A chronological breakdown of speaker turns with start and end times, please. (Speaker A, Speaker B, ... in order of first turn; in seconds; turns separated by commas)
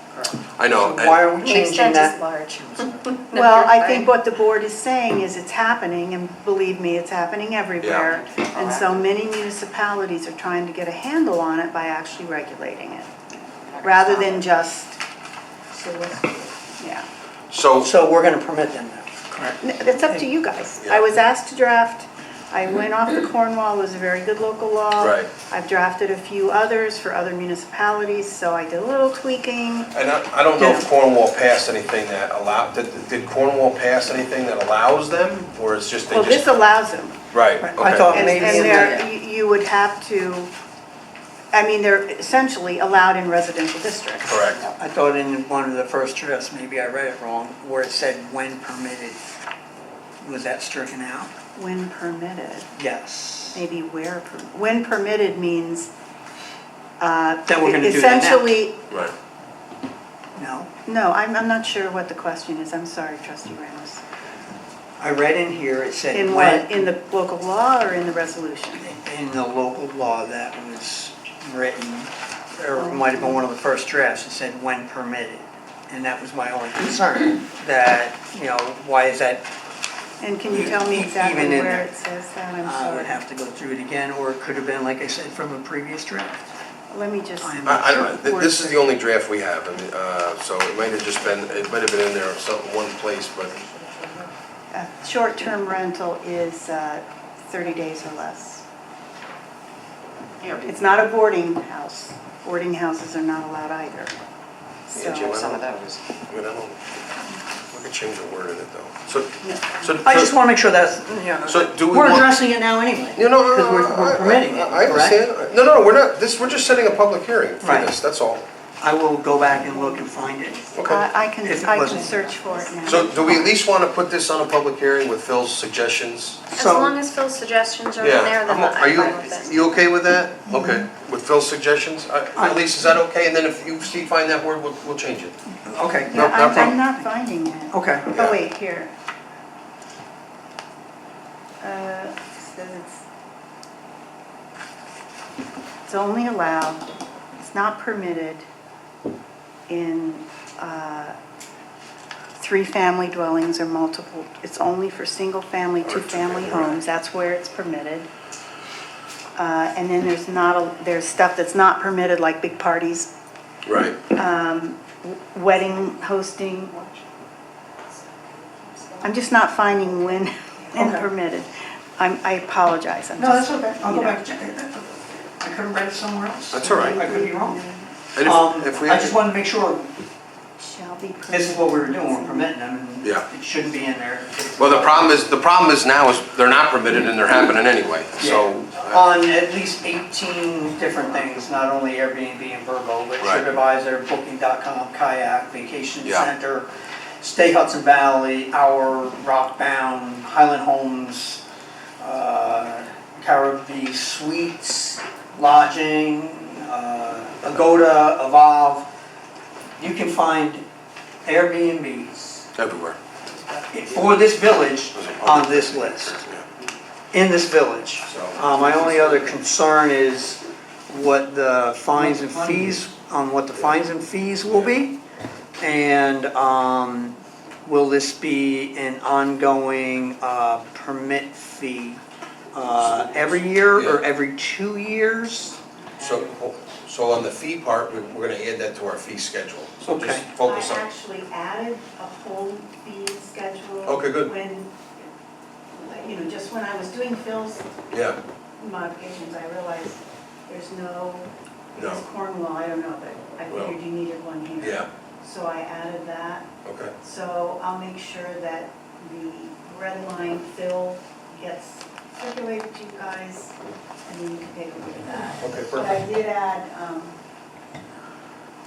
Speaker A: 0.2-2.1, Speaker B: 0.6-1.2, Speaker C: 1.4-4.1, Speaker D: 3.3-13.1, Speaker B: 7.8-8.1, Speaker C: 13.8-14.4, Speaker D: 13.8-15.0, Speaker C: 15.7-16.4, Speaker D: 15.9-17.1, Speaker B: 17.5-17.9, Speaker A: 17.8-19.6, Speaker D: 19.6-29.9, Speaker B: 25.0-25.3, Speaker B: 29.9-36.5, Speaker A: 30.6-30.9, Speaker D: 36.1-37.2, Speaker B: 37.3-38.1, Speaker A: 37.6-39.1, Speaker D: 38.1-40.5, Speaker C: 38.1-39.0, Speaker D: 41.5-44.7, Speaker B: 44.3-44.6, Speaker A: 44.8-49.2, Speaker A: 50.2-51.3, Speaker D: 51.5-52.7, Speaker A: 52.8-53.6, Speaker D: 53.5-55.9, Speaker D: 57.0-58.8, Speaker A: 57.5-58.5, Speaker A: 60.4-60.7, Speaker D: 60.8-64.0, Speaker A: 65.0-66.8, Speaker D: 66.1-68.9, Speaker A: 68.8-79.5, Speaker D: 72.7-73.4, Speaker D: 80.2-83.2, Speaker A: 80.5-81.9, Speaker A: 82.6-86.4, Speaker D: 86.9-88.5, Speaker A: 87.4-88.8, Speaker B: 87.6-93.5, Speaker C: 93.6-94.3, Speaker D: 94.7-98.6, Speaker D: 100.5-104.1, Speaker D: 104.9-105.6, Speaker B: 104.9-106.8, Speaker B: 107.7-110.3, Speaker D: 109.4-110.0, Speaker A: 110.0-115.2, Speaker B: 111.4-112.3, Speaker B: 113.2-118.4, Speaker A: 117.6-117.9, Speaker A: 118.8-120.7, Speaker B: 120.7-121.0, Speaker D: 120.8-123.5, Speaker A: 121.4-122.2, Speaker C: 122.3-123.3, Speaker B: 122.8-126.5, Speaker C: 126.5-129.8, Speaker A: 126.5-126.9, Speaker B: 128.0-135.3, Speaker A: 130.5-130.8, Speaker A: 135.7-136.8, Speaker D: 136.1-138.9, Speaker B: 136.1-136.8, Speaker A: 137.7-138.1, Speaker D: 141.6-143.0, Speaker D: 145.8-146.8, Speaker D: 147.4-148.4, Speaker D: 149.7-151.2, Speaker D: 152.4-158.1, Speaker B: 155.8-156.8, Speaker D: 159.3-163.1, Speaker B: 163.6-164.0, Speaker D: 164.1-166.8, Speaker C: 168.6-169.1, Speaker D: 169.0-174.2, Speaker A: 170.8-171.0, Speaker A: 173.2-177.6, Speaker B: 176.5-177.0, Speaker D: 176.6-177.9, Speaker B: 178.1-179.2, Speaker A: 178.2-179.9, Speaker D: 180.6-182.5, Speaker A: 181.3-185.3, Speaker B: 184.6-189.0, Speaker A: 188.2-201.4, Speaker B: 193.2-193.5, Speaker B: 196.0-196.3, Speaker A: 202.0-208.9, Speaker A: 209.8-210.6, Speaker A: 211.2-212.4, Speaker B: 212.5-213.0, Speaker A: 213.7-216.2, Speaker B: 214.9-216.4, Speaker A: 217.1-225.0, Speaker B: 218.1-219.3, Speaker A: 225.6-232.0, Speaker A: 232.5-235.6, Speaker B: 233.7-234.0, Speaker B: 236.0-240.8, Speaker A: 239.8-240.3, Speaker D: 240.4-244.8, Speaker B: 243.8-244.3, Speaker D: 245.7-247.7, Speaker B: 247.9-248.2, Speaker D: 248.6-267.2, Speaker B: 251.7-252.0, Speaker B: 253.5-253.7, Speaker B: 254.6-254.9, Speaker B: 256.6-256.9, Speaker B: 265.4-266.0